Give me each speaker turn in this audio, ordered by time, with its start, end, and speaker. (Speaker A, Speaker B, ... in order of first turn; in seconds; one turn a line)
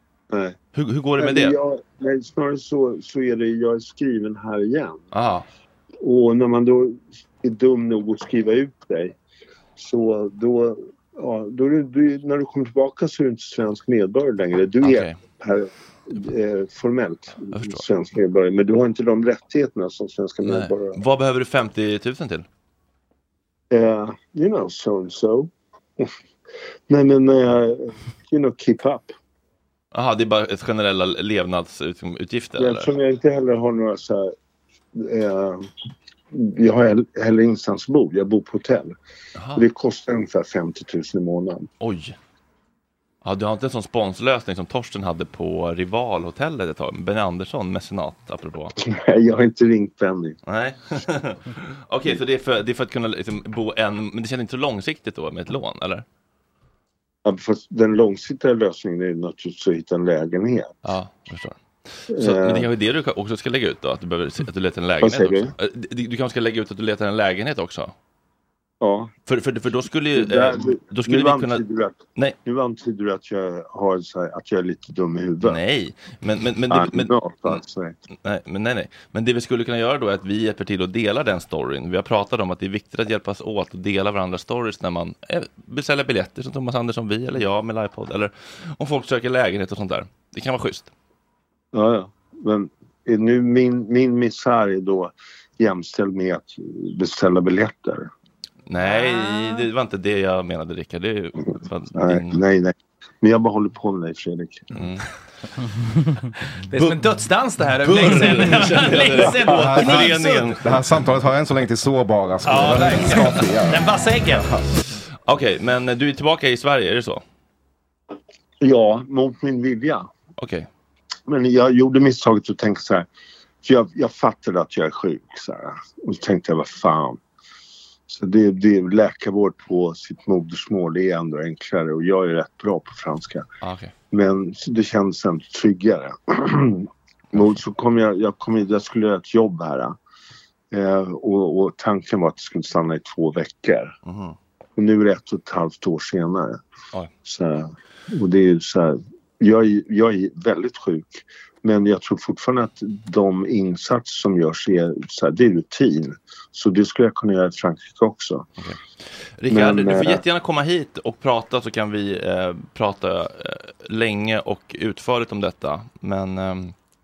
Speaker A: 0.3-0.6
Speaker B: 0.7-1.6
Speaker A: 1.2-5.0
Speaker B: 5.1-5.5
Speaker A: 6.0-9.2
Speaker A: 9.8-21.0
Speaker B: 14.8-15.2
Speaker B: 17.5-17.8
Speaker B: 20.4-22.5
Speaker A: 23.7-26.1
Speaker A: 26.9-29.1
Speaker B: 29.9-32.9
Speaker A: 32.6-34.3
Speaker A: 35.0-35.7
Speaker A: 36.3-39.0
Speaker B: 39.4-39.6
Speaker A: 39.5-41.7
Speaker B: 41.8-42.2
Speaker B: 43.2-48.7
Speaker A: 48.8-50.4
Speaker B: 50.5-56.0
Speaker A: 57.2-60.8
Speaker B: 60.9-61.6
Speaker A: 62.1-62.7
Speaker B: 62.1-67.9
Speaker A: 65.0-65.5
Speaker A: 68.8-69.1
Speaker B: 69.3-71.6
Speaker A: 70.1-75.6
Speaker B: 75.4-77.6
Speaker A: 76.7-78.0
Speaker B: 78.1-90.9
Speaker A: 91.7-98.1
Speaker B: 98.7-102.4
Speaker C: 99.0-99.6
Speaker A: 101.9-104.7
Speaker B: 104.7-105.0
Speaker C: 106.7-110.5
Speaker B: 106.7-107.0
Speaker B: 107.8-110.7
Speaker D: 109.5-114.6
Speaker C: 112.5-114.5
Speaker B: 115.3-117.2
Speaker A: 118.6-120.1
Speaker B: 120.4-120.7
Speaker A: 121.3-123.1
Speaker A: 123.6-127.2
Speaker A: 128.1-133.4
Speaker B: 133.6-133.9
Speaker A: 134.1-140.0
Speaker A: 140.7-143.9
Speaker B: 144.1-144.4
Speaker A: 144.8-146.6
Speaker A: 147.2-158.4
Speaker B: 159.4-166.7
Speaker A: 159.5-160.2